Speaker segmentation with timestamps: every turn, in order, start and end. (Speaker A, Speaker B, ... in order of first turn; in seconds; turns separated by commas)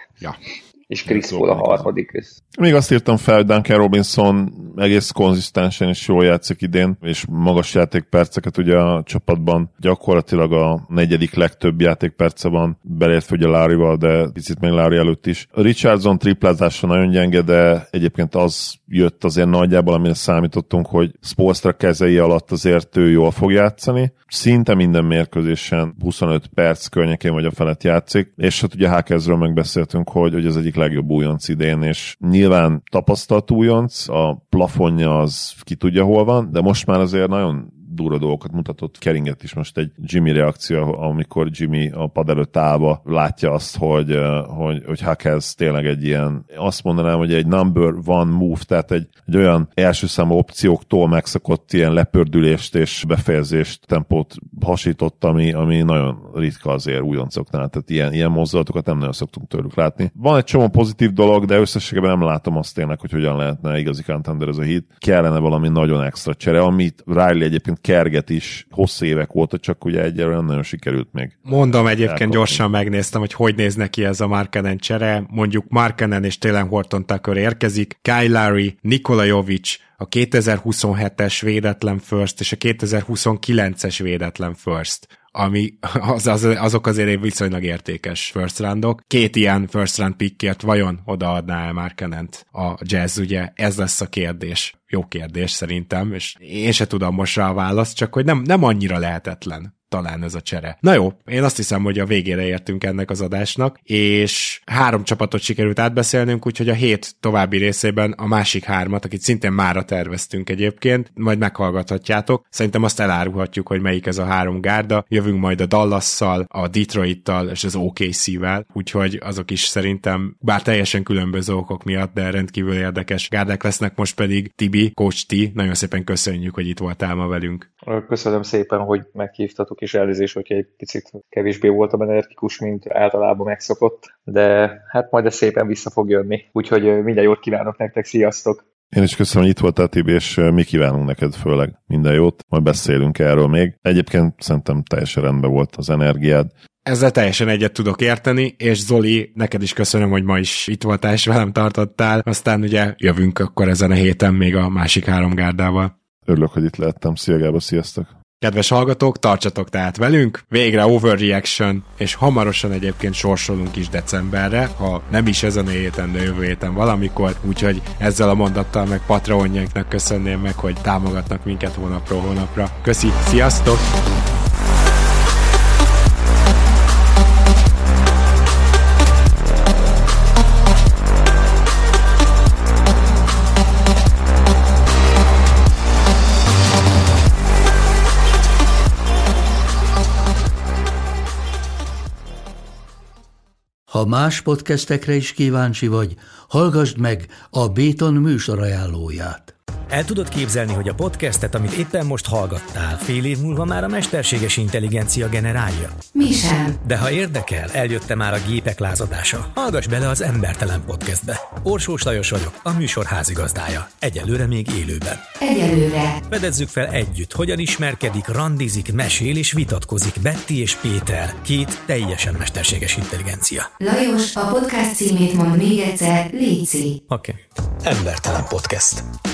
Speaker A: 0.9-2.4, Speaker B: 1.1-1.9, Speaker B: 2.5-72.6, Speaker C: 71.5-127.7, Speaker A: 127.9-138.6, Speaker B: 138.9-146.5, Speaker C: 146.8-155.9, Speaker B: 156.3-158.1, Speaker C: 158.4-173.8, Speaker D: 193.9-199.5, Speaker E: 199.9-206.0, Speaker F: 206.2-206.8, Speaker E: 206.8-215.2, Speaker F: 215.4-216.2, Speaker E: 216.3-223.7, Speaker F: 223.8-227.0, Speaker E: 227.1-229.0